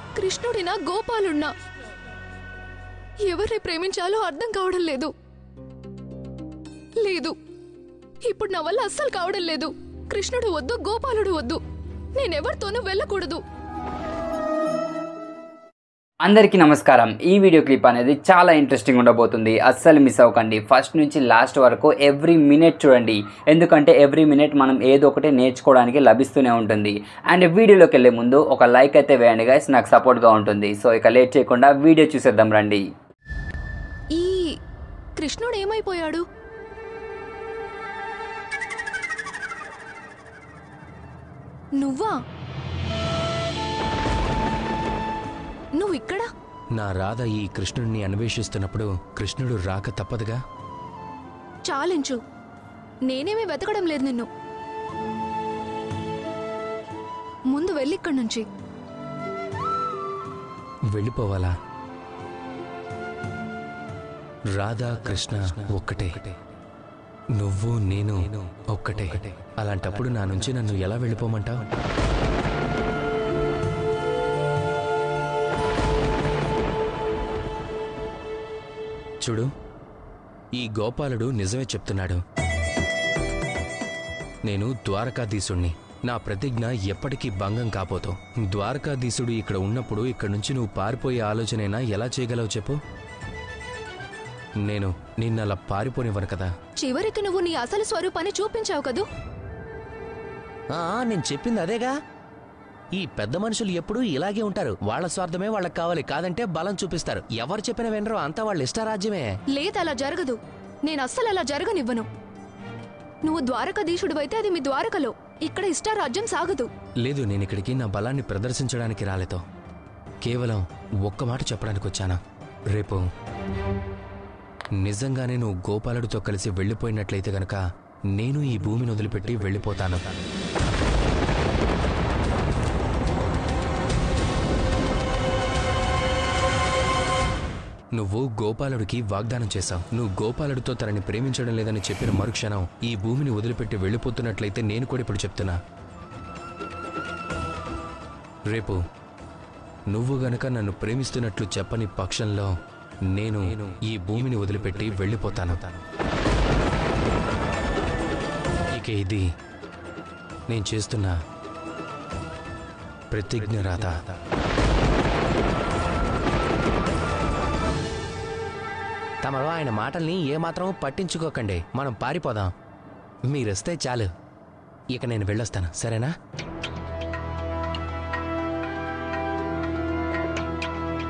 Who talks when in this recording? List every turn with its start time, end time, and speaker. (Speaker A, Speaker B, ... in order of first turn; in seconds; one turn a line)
Speaker A: 0.2-1.5
Speaker A: 3.2-5.1
Speaker A: 7.0-7.4
Speaker A: 8.2-11.6
Speaker A: 12.2-13.4
Speaker B: 16.2-32.8
Speaker A: 34.1-34.5
Speaker A: 35.2-36.2
Speaker A: 41.8-42.1
Speaker A: 45.8-46.3
Speaker C: 46.8-50.4
Speaker A: 51.7-52.2
Speaker A: 53.1-54.3
Speaker A: 57.5-58.5
Speaker C: 60.9-61.5
Speaker C: 64.5-66.3
Speaker C: 67.4-71.7
Speaker C: 79.2-79.5
Speaker C: 80.6-82.2
Speaker C: 84.5-92.8
Speaker C: 94.7-96.5
Speaker A: 96.8-99.0
Speaker D: 100.7-101.9
Speaker D: 103.0-109.3
Speaker A: 109.5-112.1
Speaker A: 113.2-116.7
Speaker C: 117.0-119.4
Speaker C: 120.2-122.2
Speaker C: 122.7-123.0
Speaker C: 124.8-127.6
Speaker C: 128.1-130.0
Speaker C: 138.0-145.6
Speaker C: 148.5-148.8
Speaker C: 149.9-152.5
Speaker C: 153.1-155.6
Speaker C: 158.8-159.3
Speaker C: 160.5-161.2
Speaker C: 163.1-164.0
Speaker D: 169.2-172.5
Speaker D: 173.3-174.1
Speaker D: 174.9-176.1